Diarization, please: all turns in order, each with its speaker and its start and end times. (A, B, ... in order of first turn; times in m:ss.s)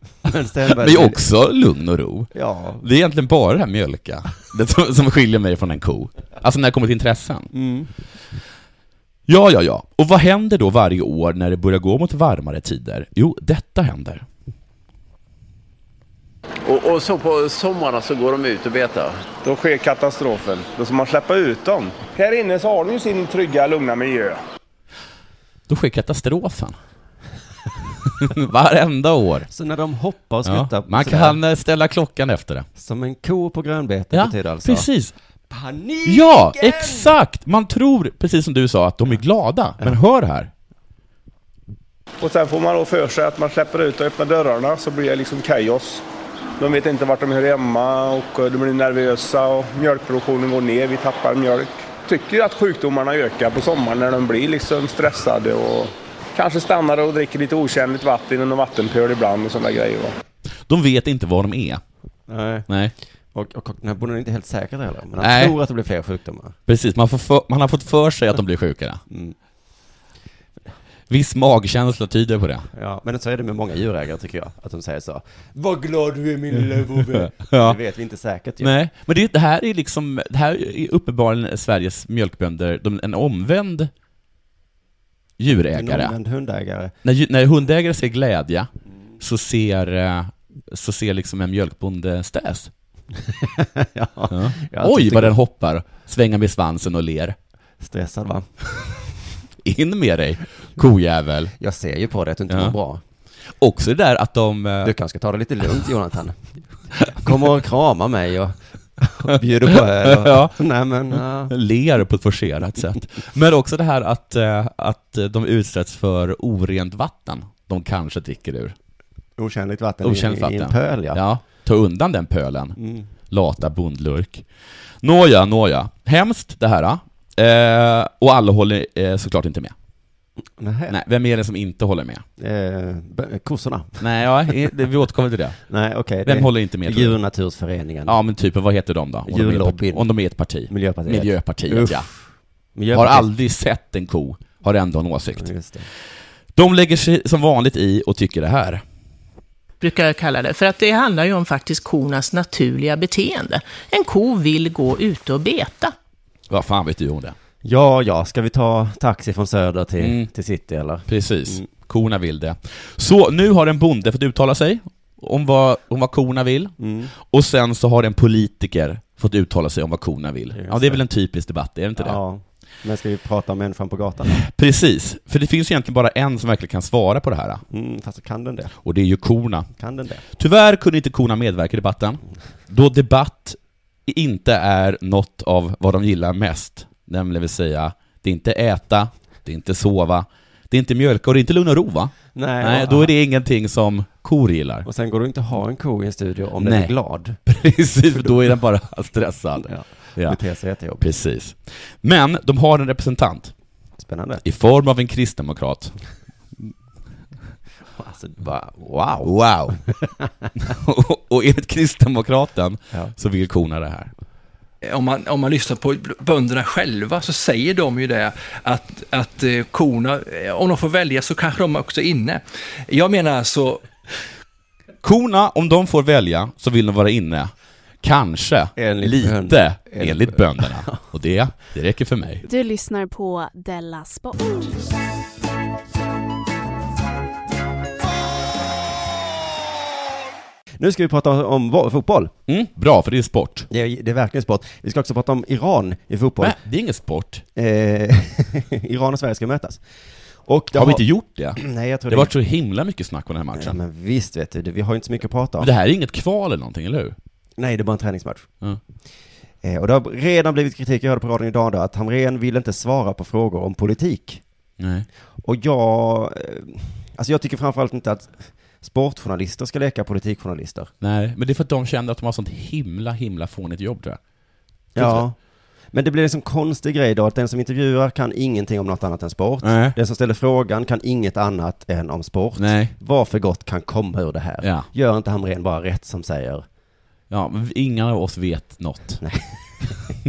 0:00.2-0:01.2 A
0:00.7-0:07.5 B
0:02.3-0:02.8 A
0:07.5-0:07.9 A
0:09.3-0:14.2 B
0:16.6-0:19.2 C
0:19.4-0:24.4 D
0:25.7-0:26.8 B
0:28.2-0:29.5 B
0:29.5-0:31.4 A
0:30.4-0:32.7 B
0:32.8-0:34.9 A
0:34.1-0:35.1 B
0:35.5-0:37.1 A
0:36.0-0:40.5 B
0:42.2-0:46.0 D
0:46.6-1:00.1 D
1:00.7-1:01.8 B
1:02.3-1:02.7 A
1:02.7-1:02.9 B
1:03.3-1:06.6 A
1:05.2-1:05.6 B
1:06.7-1:09.0 B
1:09.1-1:09.4 A
1:11.1-1:12.7 B
1:12.7-1:18.7 A
1:17.1-1:17.8 B
1:18.6-1:23.9 B
1:25.4-1:26.1 B
1:25.7-1:26.9 A
1:27.0-1:32.7 B
1:33.2-1:35.4 A
1:34.3-1:37.4 B
1:37.8-1:38.5 A
1:39.6-1:41.5 B
1:41.6-1:43.0 A
1:42.5-1:42.7 B
1:43.6-1:44.9 B
1:44.8-1:51.5 A
1:49.4-1:50.6 B
1:51.1-1:58.7 B
1:59.4-2:01.2 A
2:00.0-2:02.8 B
2:02.8-2:03.1 A
2:03.3-2:04.4 B
2:05.0-2:09.7 B
2:10.6-2:11.0 A
2:10.9-2:12.2 B
2:12.4-2:14.0 A
2:14.0-2:15.6 B
2:15.7-2:18.2 A
2:16.2-2:17.2 B
2:18.0-2:22.1 B
2:19.3-2:20.1 A
2:20.7-2:22.2 A
2:22.7-2:23.3 A
2:22.9-2:25.5 B
2:25.4-2:25.9 A
2:26.5-2:28.8 B
2:29.8-2:35.9 E
2:36.5-2:37.3 B
2:37.6-2:41.7 A
2:40.0-2:40.3 B
2:41.1-2:52.2 B
2:46.8-2:47.1 A
2:50.5-2:51.0 A
2:52.0-2:54.4 A
2:54.3-2:57.6 B
2:57.7-2:58.8 A
2:58.8-2:59.7 B
2:59.8-3:00.2 A
3:00.4-3:14.8 B
3:12.3-3:13.1 A
3:14.8-3:17.4 A
3:16.6-3:16.9 B
3:17.4-3:20.4 B
3:19.6-3:21.1 A
3:21.0-3:23.5 B
3:24.0-3:24.4 A
3:24.4-3:25.9 B
3:28.0-3:29.3 A
3:29.2-3:29.8 B
3:30.6-3:34.1 B
3:34.8-3:43.8 F
3:45.0-3:52.4 B
3:48.8-3:51.0 A
3:52.4-3:54.8 G
4:00.8-4:02.3 A
4:02.5-4:03.7 B
4:03.7-4:06.6 A
4:06.4-4:07.4 B
4:07.6-4:09.8 A
4:10.4-4:11.0 A
4:10.7-4:13.8 B
4:11.6-4:12.3 A
4:13.5-4:15.7 A
4:15.6-4:17.1 B
4:17.6-4:18.5 A
4:19.6-4:24.4 A
4:24.8-4:25.1 B
4:25.4-4:30.9 A
4:31.0-4:34.2 B
4:34.9-4:35.4 A
4:35.0-4:35.2 B
4:35.9-4:46.6 A
4:39.6-4:39.9 B
4:42.6-4:42.9 B
4:44.6-4:44.9 B
4:47.3-4:49.2 B
4:49.2-4:50.2 A